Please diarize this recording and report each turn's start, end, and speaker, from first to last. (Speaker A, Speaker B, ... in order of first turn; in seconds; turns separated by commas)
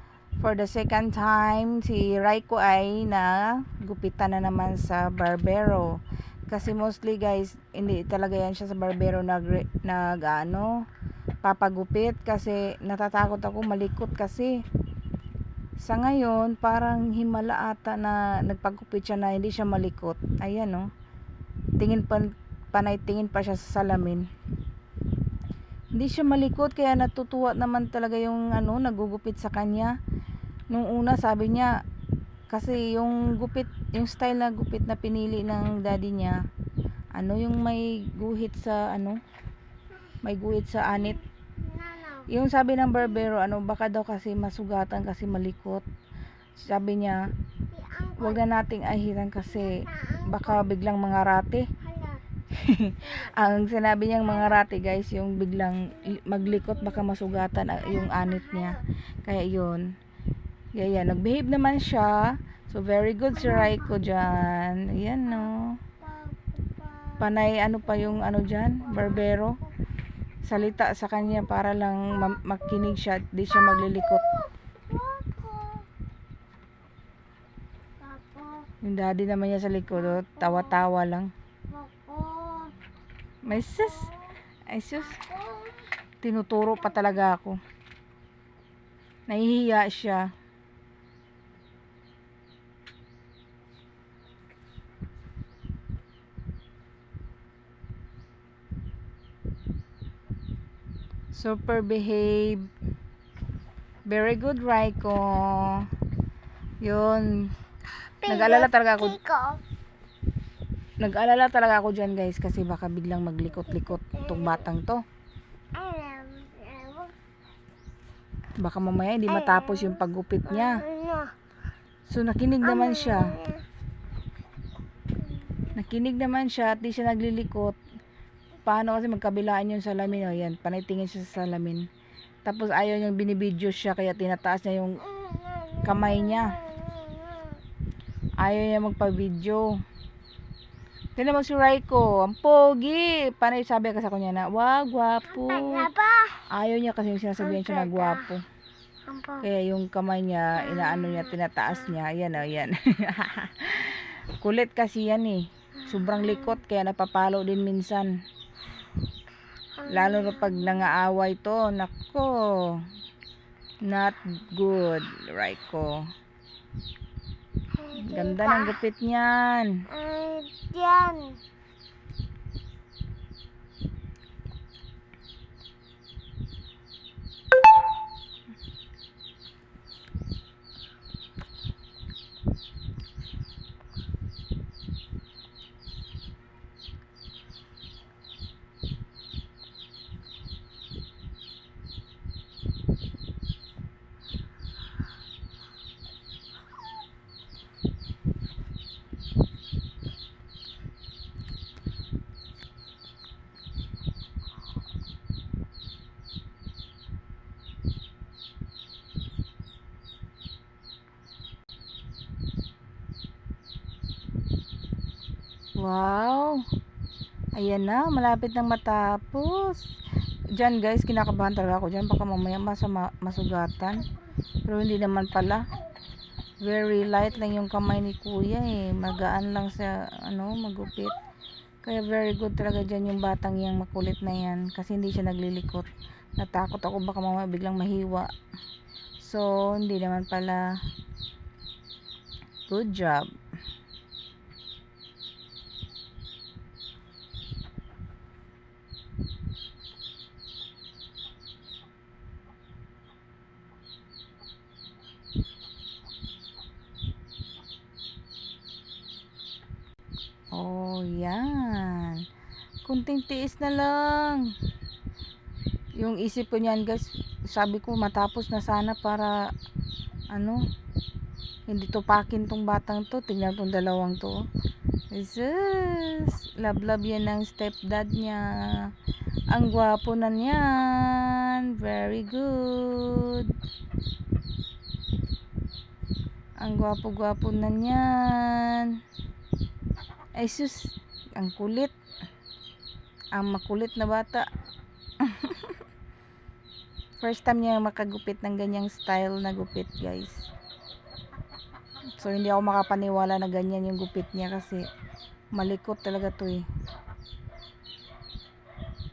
Speaker A: 0.4-6.0, Speaker A: 6.5-10.7, Speaker A: 11.4-14.5, Speaker A: 15.8-20.9, Speaker A: 21.8-24.3, Speaker A: 25.9-29.9, Speaker A: 30.7-31.7, Speaker A: 32.5-36.4, Speaker A: 37.1-39.2, Speaker A: 40.2-41.2, Speaker B: 41.6-42.2, Speaker A: 42.2-45.8, Speaker A: 46.6-47.2, Speaker B: 47.7-48.3, Speaker A: 48.2-51.7, Speaker B: 49.7-50.4, Speaker B: 51.8-52.2, Speaker A: 52.5-59.9, Speaker B: 58.1-58.8, Speaker A: 60.7-65.8, Speaker B: 66.1-67.2, Speaker A: 67.2-69.6, Speaker A: 70.4-74.2, Speaker B: 74.9-75.8, Speaker B: 78.0-78.7, Speaker A: 78.8-81.3, Speaker B: 81.7-82.8, Speaker A: 83.4-84.1, Speaker B: 83.8-84.0, Speaker A: 84.7-85.2, Speaker B: 85.1-85.8, Speaker A: 86.2-87.6, Speaker A: 89.3-90.3, Speaker A: 101.3-102.7, Speaker A: 104.0-105.9, Speaker A: 106.8-107.5, Speaker B: 108.2-109.6, Speaker A: 108.2-109.2, Speaker A: 111.0-115.0, Speaker B: 113.9-114.5, Speaker B: 115.7-117.1, Speaker A: 118.6-120.9, Speaker B: 119.3-121.3, Speaker A: 122.1-123.4, Speaker B: 122.6-123.6, Speaker A: 125.7-127.8, Speaker A: 128.6-131.9, Speaker A: 132.4-135.0, Speaker B: 135.2-137.6, Speaker A: 135.8-136.6, Speaker A: 138.4-139.8, Speaker A: 141.2-145.9, Speaker B: 145.4-146.4, Speaker A: 146.5-148.4, Speaker B: 147.6-148.2, Speaker B: 149.1-149.4, Speaker A: 149.4-158.1, Speaker B: 150.8-151.2, Speaker B: 159.8-160.9, Speaker A: 159.8-162.8, Speaker A: 163.8-166.0, Speaker B: 167.7-168.8, Speaker A: 167.9-169.8, Speaker B: 169.9-171.4, Speaker A: 215.8-216.6, Speaker A: 217.6-219.8, Speaker A: 220.5-224.1, Speaker A: 224.7-225.7, Speaker A: 226.6-231.2, Speaker A: 231.8-238.3, Speaker A: 239.2-240.6, Speaker A: 242.7-243.3, Speaker A: 260.5-262.2, Speaker A: 262.8-264.5, Speaker A: 266.0-269.4, Speaker A: 270.3-270.6, Speaker A: 271.7-274.4, Speaker A: 275.1-278.9, Speaker A: 279.5-283.5, Speaker A: 286.6-289.0, Speaker A: 290.4-291.9, Speaker A: 293.3-294.4, Speaker A: 295.2-295.8, Speaker A: 297.2-300.5, Speaker A: 302.2-304.9, Speaker A: 305.5-306.6